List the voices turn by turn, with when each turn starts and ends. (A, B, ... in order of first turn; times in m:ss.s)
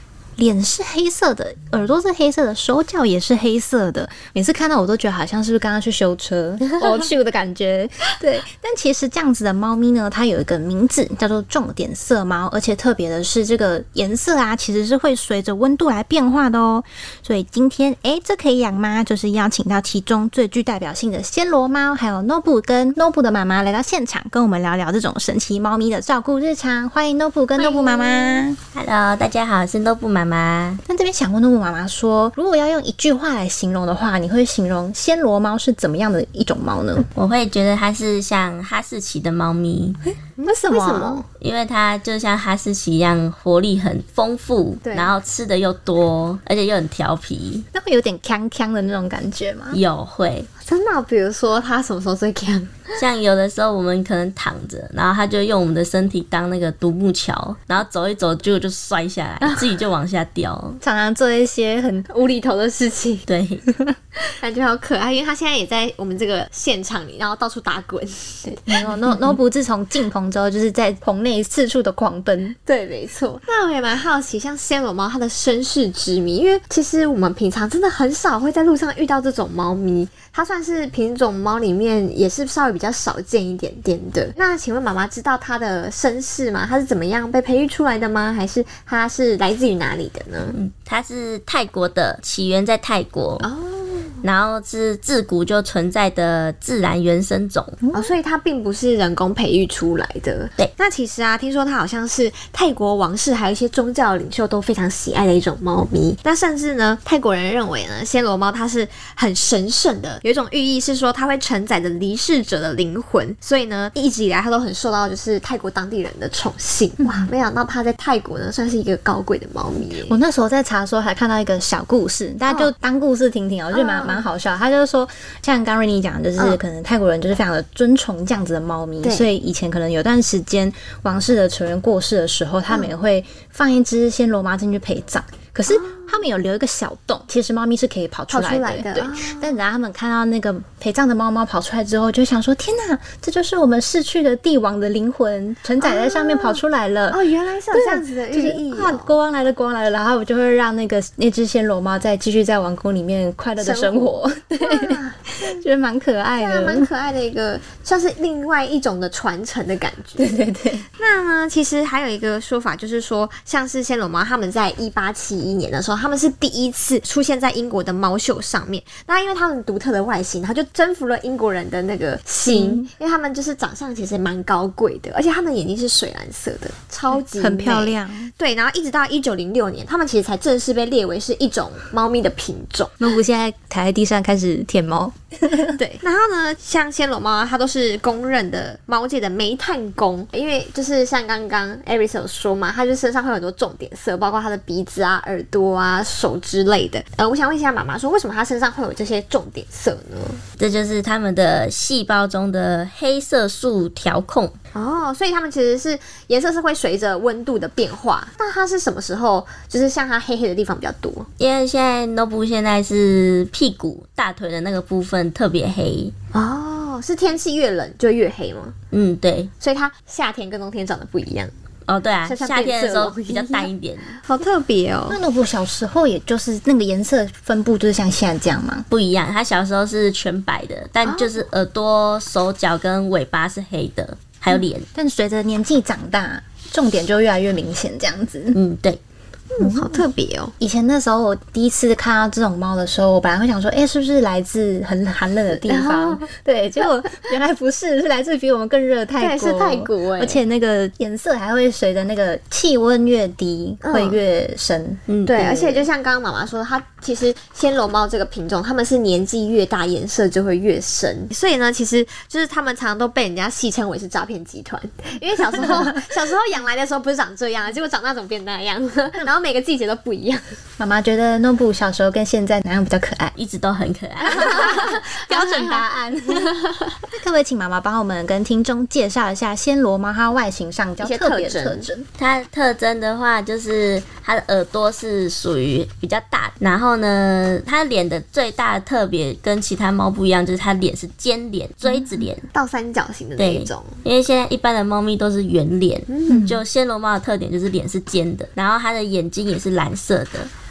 0:00.4-0:28.6 A
0:27.6-0:28.5 B
0:28.7-0:30.8 C
0:30.9-0:37.1 A
0:37.2-0:40.0 C
0:40.2-0:41.2 A
0:40.5-0:41.2 B
0:41.4-0:47.6 C
0:44.8-0:45.2 B
0:47.7-0:49.8 A
0:49.7-0:50.5 C
0:50.6-0:53.0 B
0:53.0-1:00.8 C
1:00.8-1:02.1 A
1:02.1-1:03.3 B
1:03.3-1:03.7 C
1:03.7-1:03.9 A
1:04.3-1:08.9 B
1:08.7-1:12.6 A
1:12.6-1:30.6 B
1:30.5-1:33.5 C
1:33.4-1:34.2 B
1:34.2-1:37.8 C
1:37.8-1:38.2 A
1:37.9-2:00.2 B
1:57.0-1:57.3 A
1:59.9-2:27.2 A
2:03.7-2:04.3 B
2:09.0-2:09.3 B
2:15.7-2:16.2 B
2:18.3-2:19.6 B
2:25.8-2:29.1 B
2:27.7-2:36.9 A
2:33.6-2:35.6 B
2:36.4-2:40.3 B
2:40.2-2:40.9 A
2:41.0-3:03.1 B
2:52.5-2:52.9 A
2:57.1-2:58.3 A
3:03.0-3:05.8 A
3:05.7-3:20.4 B
3:20.6-3:24.6 C
3:24.7-3:31.3 B
3:31.4-3:36.1 C
3:36.3-3:38.8 B
3:38.9-3:39.5 C
3:39.6-3:41.5 B
3:41.9-3:44.2 C
3:42.2-3:45.2 B
3:45.1-3:48.9 A
3:48.9-3:54.9 C
3:51.0-3:51.4 B
3:54.9-3:58.6 A
3:58.5-3:59.0 C
3:59.5-4:00.5 B
3:59.6-4:00.0 A
4:00.6-4:15.9 A
4:05.5-4:06.3 B
4:09.2-4:10.4 B
4:13.8-4:14.2 B
4:15.1-4:15.4 C
4:15.3-4:30.4 B
4:30.8-4:33.4 A
4:33.4-4:34.6 C
4:34.2-4:36.5 A
4:34.2-4:36.9 B
4:37.1-4:42.1 A
4:41.0-4:41.9 B
4:42.2-4:52.5 C
4:52.5-4:54.0 B
4:53.4-5:00.5 C
4:56.1-4:56.4 B
4:56.3-4:56.6 A